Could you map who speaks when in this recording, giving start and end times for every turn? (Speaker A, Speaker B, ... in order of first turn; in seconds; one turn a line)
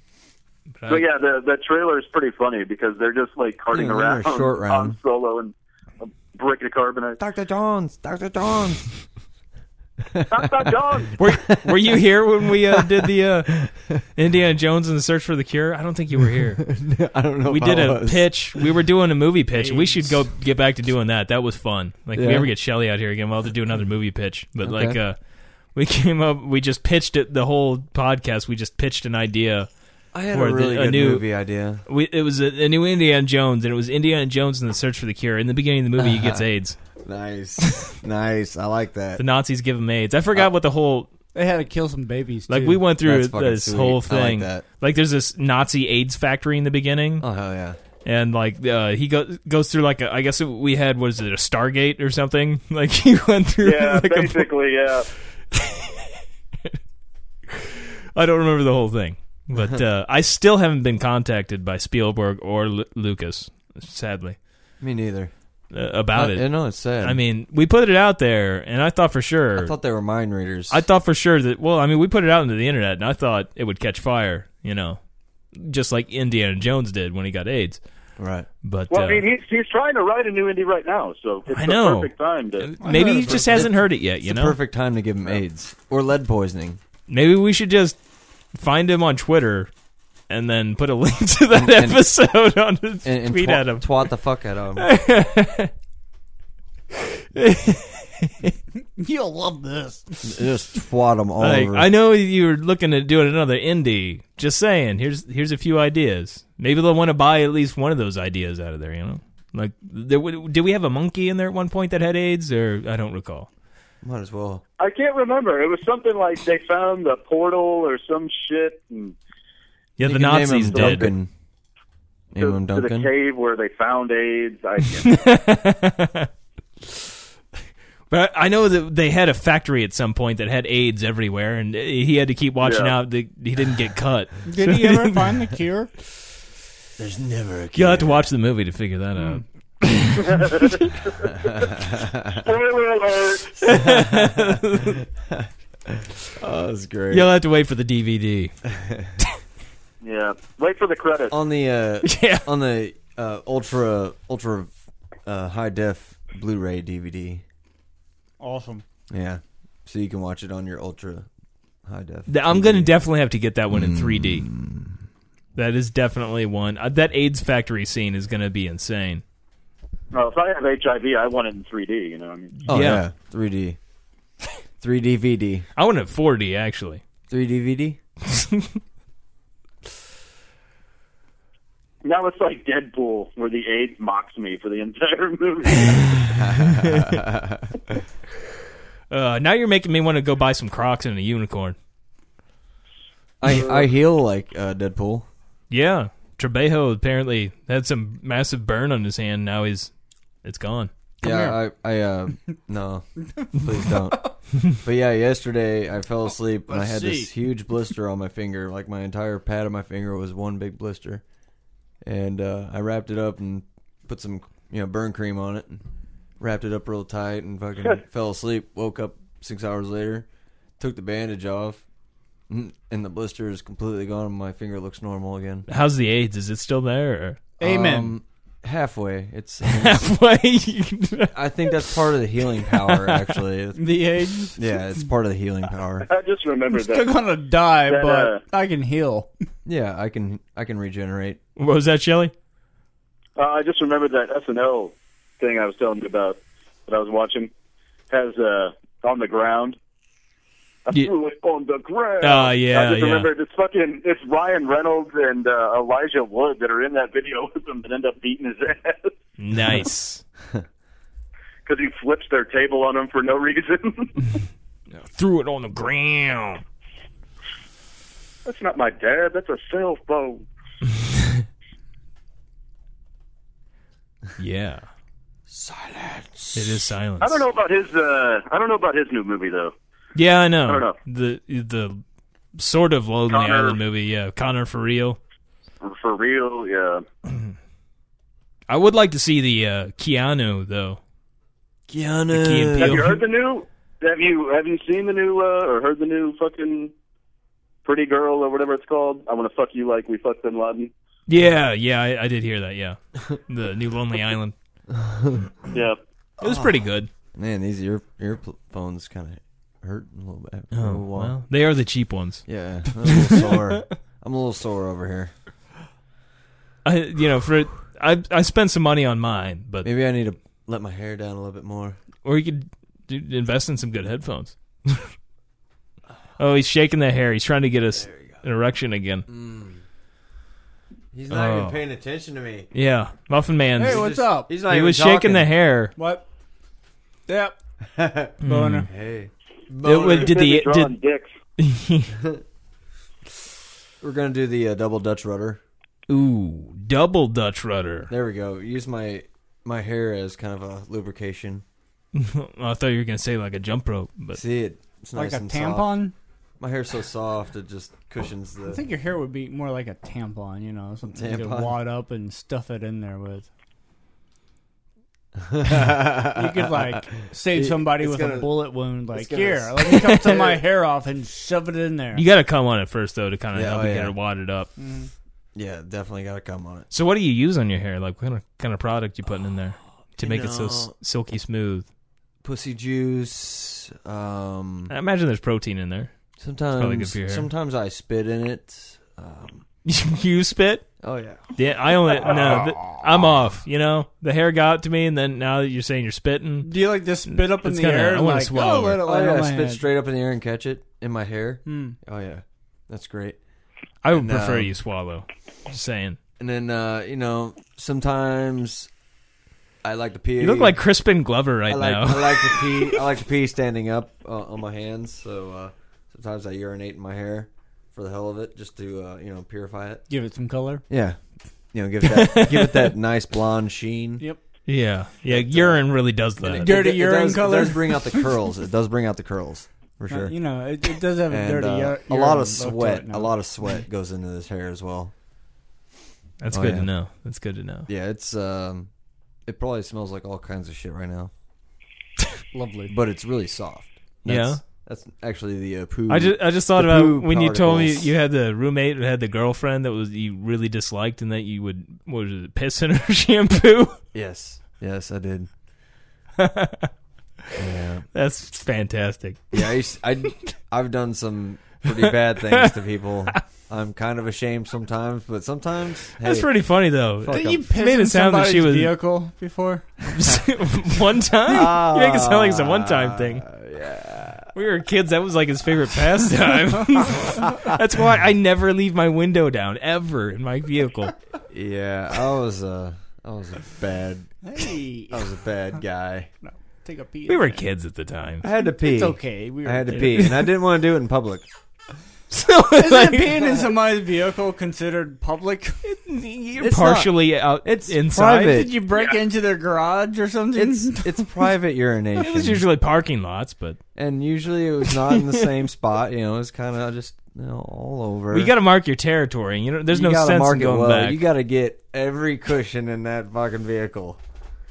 Speaker A: 0.8-1.1
Speaker B: 0.9-7.2
Speaker C: 3.7-5.0
Speaker C: 7.2-8.9
Speaker C: 10.1-14.0
Speaker B: 10.3-11.2
Speaker A: 11.2-16.6
Speaker C: 16.6-18.7
Speaker A: 17.4-25.2
Speaker C: 22.1-22.5
Speaker C: 24.6-25.0
Speaker A: 25.7-29.7
Speaker C: 30.1-31.8
Speaker A: 30.3-31.3
Speaker A: 31.9-36.8
Speaker C: 36.0-36.4
Speaker C: 37.0-39.2
Speaker A: 39.2-41.1
Speaker D: 41.3-42.8
Speaker A: 42.5-47.2
Speaker C: 43.0-44.6
Speaker C: 47.2-47.8
Speaker A: 48.0-54.5
Speaker B: 53.6-55.1
Speaker A: 55.5-56.1
Speaker A: 57.5-64.4
Speaker C: 64.8-65.3
Speaker A: 65.7-69.7
Speaker C: 66.1-67.2
Speaker C: 69.5-70.8
Speaker A: 70.7-75.0
Speaker A: 75.5-77.8
Speaker C: 78.2-78.5
Speaker A: 78.6-79.2
Speaker B: 78.9-82.7
Speaker A: 81.5-84.6
Speaker D: 82.8-83.7
Speaker C: 82.9-86.8
Speaker A: 87.1-88.0
Speaker A: 88.5-89.7
Speaker A: 90.3-93.9
Speaker C: 91.5-92.0
Speaker C: 93.0-94.9
Speaker A: 94.8-95.7
Speaker A: 97.3-98.5
Speaker D: 99.0-100.2
Speaker C: 100.2-101.9
Speaker A: 101.4-113.5
Speaker C: 114.0-114.6
Speaker B: 114.8-119.1
Speaker A: 120.0-121.1
Speaker C: 120.0-121.3
Speaker B: 120.7-121.1
Speaker C: 122.3-123.1
Speaker B: 122.4-125.1
Speaker A: 125.0-126.3
Speaker A: 128.1-135.4
Speaker B: 132.6-132.9
Speaker D: 134.4-135.9
Speaker C: 137.0-138.3
Speaker A: 137.7-140.9
Speaker B: 140.3-141.6
Speaker C: 141.4-142.4
Speaker B: 142.3-143.6
Speaker C: 143.6-147.3
Speaker A: 143.6-145.0
Speaker A: 147.1-148.5
Speaker C: 148.7-149.1
Speaker B: 150.0-151.3
Speaker C: 151.3-154.7
Speaker A: 152.0-152.5
Speaker C: 155.2-157.4
Speaker D: 158.4-158.8
Speaker C: 159.1-161.3
Speaker C: 161.8-162.9
Speaker A: 162.3-164.5
Speaker C: 163.7-165.0
Speaker A: 165.6-169.2
Speaker B: 170.1-172.6
Speaker A: 172.6-173.0
Speaker C: 172.7-173.8
Speaker C: 174.8-175.7
Speaker A: 175.8-177.0
Speaker C: 177.3-178.0
Speaker A: 178.3-178.7
Speaker B: 182.0-186.2
Speaker C: 186.3-187.9
Speaker A: 189.1-191.8
Speaker C: 193.4-195.3
Speaker A: 195.7-199.9
Speaker A: 200.4-200.9
Speaker C: 201.2-211.2
Speaker D: 201.2-201.6
Speaker D: 206.7-207.3
Speaker C: 212.0-215.8
Speaker C: 216.4-220.3
Speaker C: 220.8-221.8
Speaker C: 222.5-225.7
Speaker A: 225.7-227.4
Speaker D: 227.6-228.2
Speaker C: 227.6-230.1
Speaker A: 229.6-231.9
Speaker C: 231.3-234.0
Speaker A: 232.7-233.4
Speaker D: 233.8-234.6
Speaker C: 234.6-236.1
Speaker B: 236.0-237.1
Speaker D: 236.7-239.3
Speaker B: 237.8-238.4
Speaker C: 239.6-241.4
Speaker A: 241.6-242.3
Speaker B: 243.4-247.5
Speaker B: 248.1-249.8
Speaker B: 250.8-259.1
Speaker A: 252.2-253.3
Speaker A: 259.4-260.2
Speaker B: 261.6-264.2
Speaker A: 264.9-266.6
Speaker B: 268.4-270.4
Speaker A: 274.4-274.8
Speaker C: 275.5-276.9
Speaker A: 276.5-277.4
Speaker B: 277.2-279.7
Speaker A: 280.1-282.0
Speaker B: 280.7-280.9
Speaker A: 282.6-285.2
Speaker B: 283.3-283.8
Speaker B: 285.8-287.0
Speaker A: 287.3-287.5
Speaker A: 288.7-291.0
Speaker C: 291.9-293.1
Speaker A: 292.3-293.2
Speaker B: 292.8-296.9
Speaker B: 297.8-300.9
Speaker A: 301.3-304.5
Speaker C: 304.9-305.5
Speaker B: 305.7-306.0
Speaker C: 306.4-306.8
Speaker A: 306.4-307.1
Speaker C: 307.3-311.3
Speaker A: 310.7-313.8
Speaker C: 312.5-315.3
Speaker A: 316.8-319.9
Speaker C: 319.8-322.0
Speaker A: 322.2-325.1
Speaker A: 326.4-329.2
Speaker C: 327.9-328.4
Speaker C: 329.3-329.8
Speaker C: 331.1-332.7
Speaker A: 331.3-331.8
Speaker A: 332.7-335.9
Speaker D: 333.8-334.5
Speaker C: 333.8-335.5
Speaker D: 336.0-336.2
Speaker D: 337.3-337.6
Speaker C: 337.9-338.3
Speaker D: 338.4-338.9
Speaker A: 338.4-338.9
Speaker C: 338.9-340.4
Speaker A: 339.8-340.9
Speaker B: 339.9-341.3
Speaker A: 341.6-342.1
Speaker C: 344.0-345.6
Speaker A: 346.1-348.1
Speaker C: 348.1-351.6
Speaker A: 352.1-354.4
Speaker C: 354.3-356.0
Speaker D: 355.1-356.1
Speaker C: 356.6-358.8
Speaker D: 358.6-363.5
Speaker C: 361.1-361.8
Speaker C: 365.4-368.6
Speaker D: 366.3-372.2
Speaker C: 369.1-370.2
Speaker A: 369.9-370.5
Speaker A: 372.1-374.7
Speaker C: 373.5-374.1
Speaker D: 374.8-375.1
Speaker C: 375.5-376.9
Speaker A: 376.9-381.9
Speaker C: 380.2-380.9
Speaker C: 382.4-384.9
Speaker A: 384.9-386.1
Speaker C: 386.4-389.6
Speaker A: 386.8-387.5
Speaker A: 389.8-390.9
Speaker C: 391.0-391.4
Speaker A: 391.6-396.7
Speaker C: 392.2-392.6
Speaker D: 392.5-393.0
Speaker D: 396.6-399.8
Speaker A: 397.3-399.0
Speaker C: 399.0-403.4
Speaker D: 401.6-402.0
Speaker A: 404.0-406.2
Speaker C: 404.1-404.7
Speaker C: 406.4-408.9
Speaker C: 409.8-410.8
Speaker A: 410.4-412.9
Speaker C: 411.7-420.0
Speaker D: 420.1-420.8
Speaker C: 420.9-421.2
Speaker C: 421.7-424.2
Speaker A: 422.0-422.9
Speaker A: 424.7-426.7
Speaker C: 425.3-430.4
Speaker D: 426.6-428.3
Speaker D: 430.1-433.3
Speaker C: 431.2-435.1
Speaker A: 436.4-437.9
Speaker C: 436.5-436.9
Speaker C: 437.9-438.9
Speaker C: 439.4-441.3
Speaker D: 442.5-442.9
Speaker C: 442.9-448.1
Speaker A: 444.2-444.6
Speaker A: 446.1-454.0
Speaker C: 454.1-455.5
Speaker A: 456.4-456.9
Speaker C: 457.5-458.1
Speaker A: 458.1-459.6
Speaker C: 459.5-466.5
Speaker A: 461.9-462.7
Speaker A: 466.2-468.9
Speaker C: 467.2-467.6
Speaker D: 467.3-470.0
Speaker A: 470.0-473.4
Speaker C: 471.4-474.5
Speaker A: 474.5-481.1
Speaker C: 481.5-486.3
Speaker D: 484.4-485.3
Speaker D: 486.4-487.6
Speaker A: 487.3-488.4
Speaker C: 488.4-491.5
Speaker D: 488.6-490.3
Speaker A: 492.3-493.5
Speaker D: 492.8-495.8
Speaker A: 495.8-498.6
Speaker C: 496.6-498.7
Speaker D: 498.4-501.3
Speaker C: 500.5-502.6
Speaker A: 502.2-503.8
Speaker C: 503.9-508.5
Speaker A: 508.3-511.2
Speaker C: 509.9-514.2